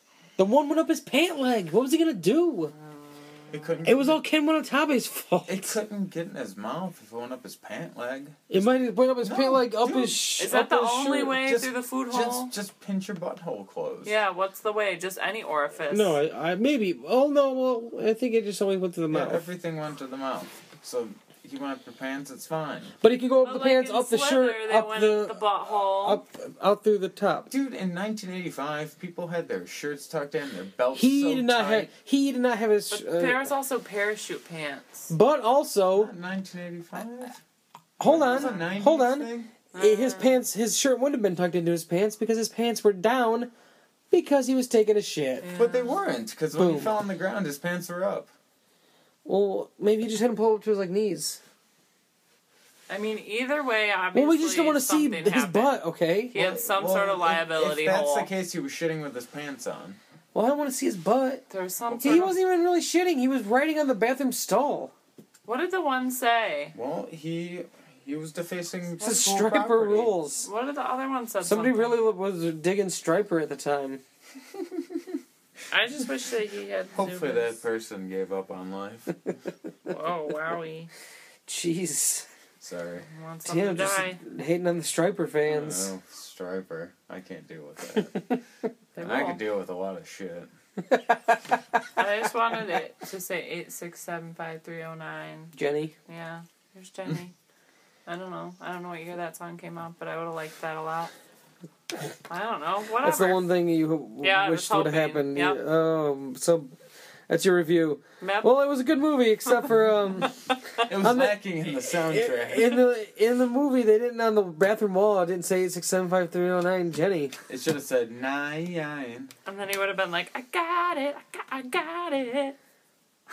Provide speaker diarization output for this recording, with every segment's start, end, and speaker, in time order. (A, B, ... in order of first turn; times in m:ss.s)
0:00.4-0:02.7 A
0:02.7-0:03.7 B
0:03.5-0:04.2 C
0:03.8-0:05.8 A
0:05.5-0:08.7 C
0:08.5-0:11.4 A
0:09.2-0:10.2 C
0:10.4-0:12.5 B
0:11.4-0:14.2 C
0:14.0-0:16.2 B
0:15.9-0:19.4 A
0:19.1-0:22.9 C
0:23.0-0:25.4 A
0:23.4-0:26.2 B
0:25.9-0:27.5 A
0:27.5-0:31.9 C
0:30.9-0:33.4 A
0:32.9-0:35.1 B
0:35.1-0:36.1 A
0:36.0-0:37.4 C
0:38.0-0:43.5 A
0:38.0-0:39.5 C
0:38.3-0:38.7 B
0:39.7-0:40.4 B
0:44.1-0:45.5 A
0:45.4-0:46.0 B
0:45.5-0:48.3 C
0:46.6-0:46.9 A
0:49.2-0:51.4 A
0:52.9-0:55.8 B
0:54.1-0:56.3 A
0:56.3-0:58.3 B
0:56.3-1:00.0 C
1:00.3-1:04.9 A
1:01.5-1:02.4 B
1:05.4-1:06.7 B
1:06.7-1:10.2 C
1:09.0-1:10.5 A
1:10.4-1:12.0 B
1:11.4-1:14.0 A
1:15.7-1:17.6 B
1:16.9-1:19.2 C
1:19.8-1:20.9 B
1:21.5-1:22.3 A
1:22.6-1:23.1 C
1:23.1-1:24.2 B
1:23.4-1:25.9 A
1:25.5-1:28.2 C
1:28.9-1:29.4 B
1:29.0-1:30.5 C
1:30.9-1:31.6 A
1:32.0-1:35.5 B
1:35.5-1:35.9 A
1:36.1-1:37.3 B
1:38.0-1:41.1 B
1:42.3-1:43.4 B
1:43.0-1:46.7 A
1:44.2-1:45.6 B
1:47.3-1:57.3 A
1:48.2-1:48.6 B
1:50.5-1:50.8 B
1:50.8-1:52.8 C
1:57.5-1:59.3 C
1:59.4-2:02.6 B